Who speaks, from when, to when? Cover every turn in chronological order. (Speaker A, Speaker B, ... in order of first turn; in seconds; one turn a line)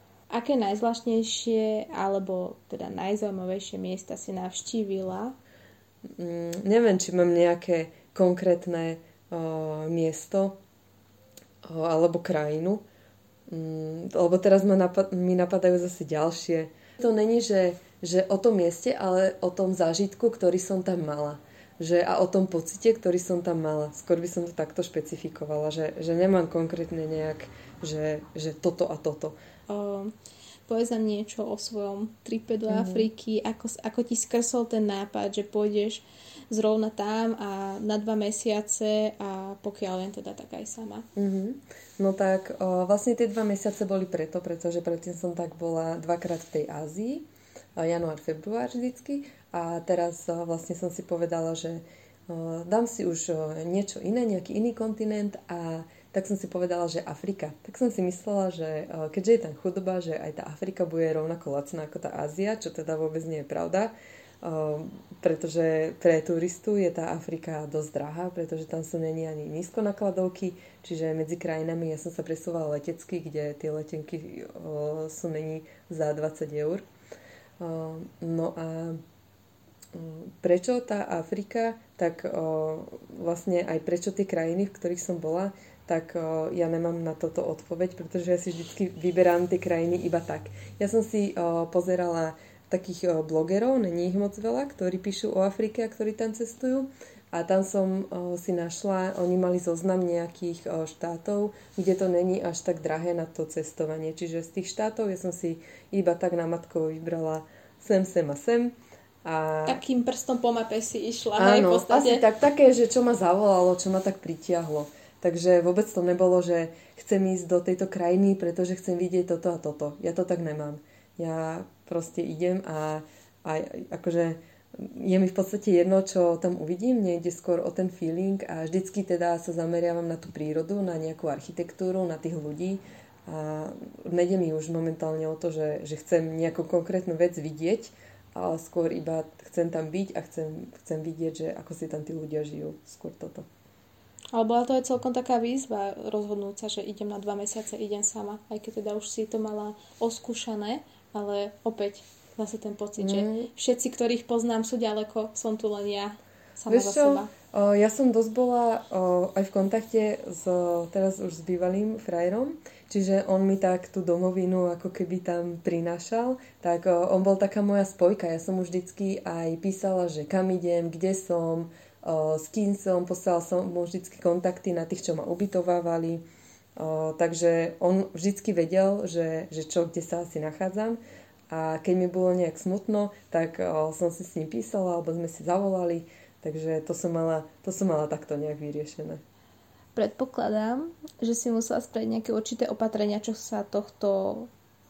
Speaker A: 0.3-5.4
Speaker B: 6.2-10.6
Speaker B: 11.6-12.8
Speaker B: 13.5-29.4
Speaker A: 29.7-30.1
Speaker A: 30.7-41.1
Speaker B: 32.7-33.1
Speaker B: 41.1-76.8
Speaker B: 77.6-79.0
Speaker B: 79.9-109.8
Speaker A: 109.7-112.2
Speaker B: 111.4-143.5
Speaker A: 144.3-157.3
Speaker B: 153.0-153.5
Speaker B: 156.7-176.2
Speaker B: 176.8-189.2
Speaker A: 189.9-194.5